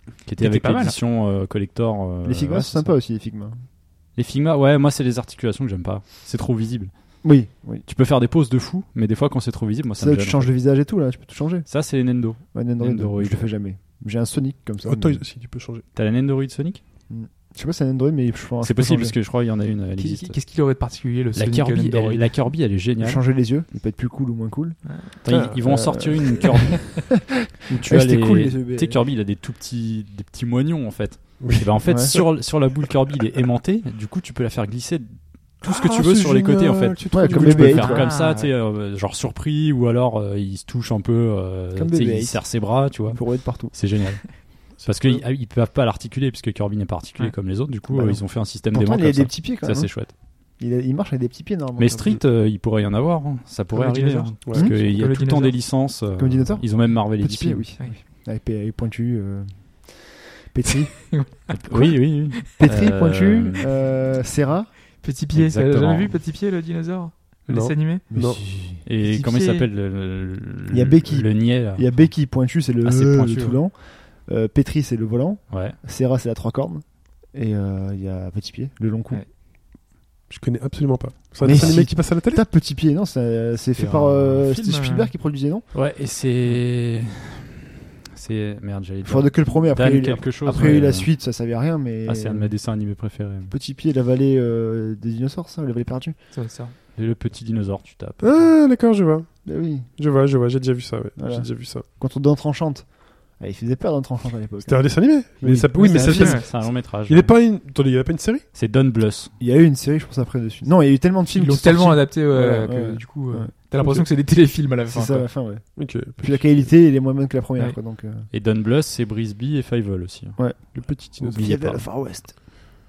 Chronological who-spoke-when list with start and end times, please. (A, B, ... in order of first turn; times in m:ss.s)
0:00.2-0:02.9 A
0:00.2-0:01.0 B
0:02.2-0:03.6 C
0:04.2-0:06.9 A
0:07.2-0:07.8 C
0:07.8-0:10.5 A
0:10.0-0:11.7 C
0:11.7-0:13.5 A
0:12.5-0:15.2 C
0:14.8-0:15.8 D
0:15.9-0:16.8 A
0:17.1-0:19.2 C
0:18.6-0:20.4 A
0:20.0-0:22.3 B
0:21.3-0:23.2 A
0:23.0-0:29.0 C
0:25.2-0:27.1 A
0:27.7-0:50.1 A
0:31.4-0:32.3 D
0:31.8-0:32.1 C
0:35.6-0:38.0 D
0:37.1-0:38.1 C
0:37.8-0:38.5 B
0:41.7-0:43.7 C
0:44.8-0:45.2 D
0:47.9-0:50.1 C
0:50.6-0:52.2 C
0:51.8-0:57.7 A
0:53.8-0:55.6 B
0:54.5-0:54.8 C
0:56.1-1:01.3 C
1:01.1-1:02.4 B
1:01.5-1:03.7 A
1:02.5-1:04.7 C
1:05.0-1:08.0 B
1:05.3-1:06.2 A
1:07.5-1:08.4 D
1:08.1-1:08.8 C
1:08.7-1:12.2 A
1:09.0-1:09.7 B
1:10.7-1:19.2 C
1:12.8-1:13.6 A
1:15.5-1:15.8 A
1:20.3-1:22.4 D
1:21.4-1:25.6 C
1:21.4-1:21.8 A
1:23.8-1:25.1 B
1:25.7-1:31.1 A
1:29.0-1:32.5 C
1:32.0-1:33.5 A
1:33.5-1:36.2 C
1:36.3-1:36.7 B
1:36.9-1:38.5 A
1:38.2-1:41.8 D
1:39.4-1:39.8 C
1:41.2-1:46.4 C
1:44.6-1:48.4 D
1:45.8-1:46.5 B
1:46.1-1:47.3 A
1:48.5-1:49.3 A
1:49.4-1:53.5 C
1:51.3-1:55.3 B
1:54.9-1:58.3 C
1:55.8-1:56.5 D
1:58.3-2:00.4 A
2:00.7-2:01.5 D
2:01.2-2:01.8 A
2:01.4-2:02.4 C